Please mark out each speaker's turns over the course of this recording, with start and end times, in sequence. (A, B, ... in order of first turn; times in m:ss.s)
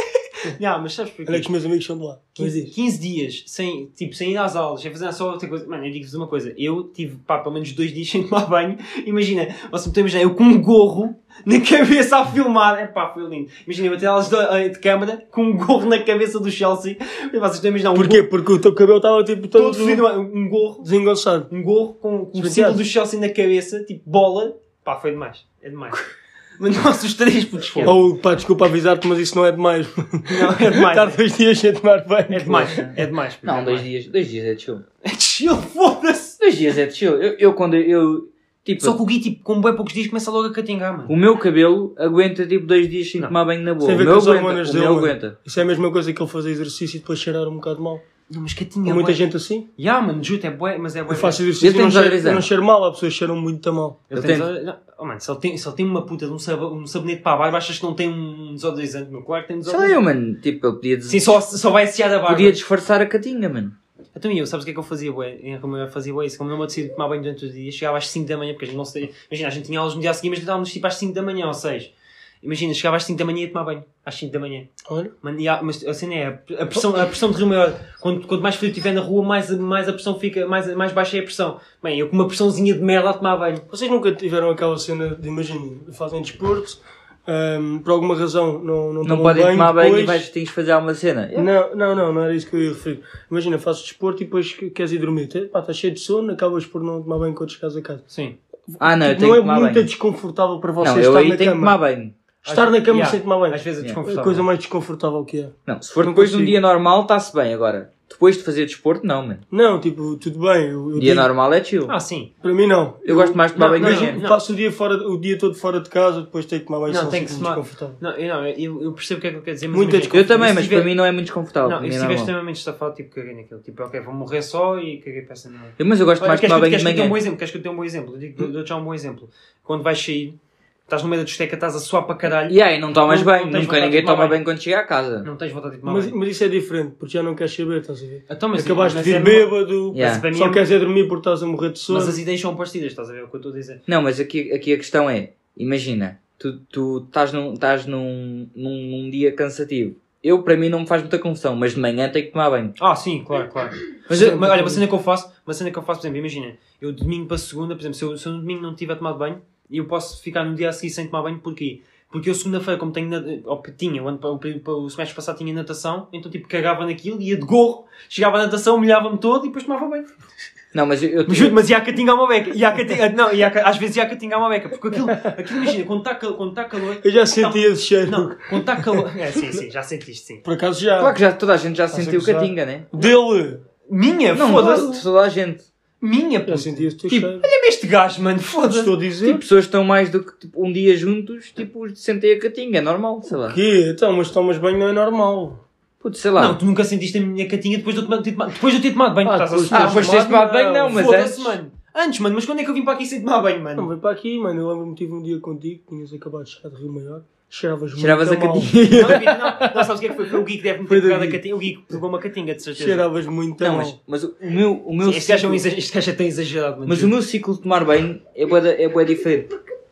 0:00.4-0:01.5 A
0:01.2-0:02.7 B
0:02.3-0:18.3 A
0:17.9-0:20.0 B
0:19.5-0:20.9 A
0:20.8-0:21.5 B
0:21.5-0:26.0 A
0:22.4-0:22.8 B
0:26.6-0:28.0 A
0:27.8-0:32.9 B
0:30.3-0:31.2 A
0:32.3-0:33.9 A
0:33.4-0:34.8 C
0:35.0-0:36.4 A
0:36.4-0:39.0 C
0:38.8-0:41.1 A
0:41.1-0:45.3 C
0:43.8-0:48.0 B
0:48.3-0:49.2 A
0:48.8-0:49.6 B
0:49.8-0:51.4 A
0:51.1-0:54.0 B
0:51.6-0:52.4 C
0:54.1-1:00.0 A
0:54.1-0:54.5 C
0:59.7-1:01.4 C
1:01.1-1:02.6 A
1:02.3-1:03.7 C
1:04.1-1:23.6 A
1:14.8-1:15.1 B
1:23.7-1:30.2 B
1:29.0-1:31.5 C
1:31.3-1:38.0 B
1:38.1-1:38.4 A
1:38.7-1:41.8 B
1:38.8-1:39.9 C
1:40.8-1:42.1 C
1:42.4-1:44.5 A
1:42.4-1:46.6 B
1:45.7-1:49.4 C
1:49.5-1:51.3 B
1:51.0-1:51.9 C
1:51.9-1:52.3 A
1:52.4-1:58.0 B
1:53.0-1:54.2 C
1:53.5-1:54.4 A
1:56.9-2:00.9 A
1:59.7-2:00.2 B
2:00.1-2:02.3 C
2:01.6-2:10.4 A
2:05.8-2:07.2 C
2:10.9-2:14.4 A
2:12.5-2:15.3 C
2:15.2-2:16.2 A
2:15.8-2:22.2 B
2:18.3-2:20.7 A
2:19.9-2:20.3 C
2:21.9-2:23.8 A
2:23.9-2:32.7 C
2:32.8-2:50.1 A
2:34.1-2:34.8 B
2:34.1-2:34.8 C
2:50.7-2:51.6 C
2:51.2-3:00.4 A
2:57.0-2:59.0 B
3:00.4-3:01.2 B
3:01.0-3:02.9 C
3:01.9-3:03.6 B
3:03.8-3:05.0 A
3:04.3-3:05.6 C
3:06.0-3:08.9 A
3:06.4-3:07.5 B
3:08.6-3:09.4 B
3:09.2-3:13.6 C
3:13.3-3:15.6 B
3:16.0-3:16.6 C
3:16.4-3:23.9 A
3:19.2-3:21.0 B
3:19.7-3:21.6 C
3:23.8-3:29.9 B
3:28.0-3:29.5 C
3:28.9-3:33.1 A
3:30.8-3:31.4 B
3:32.8-3:34.0 B
3:33.6-3:35.6 C
3:35.0-3:37.1 A
3:36.8-3:39.5 C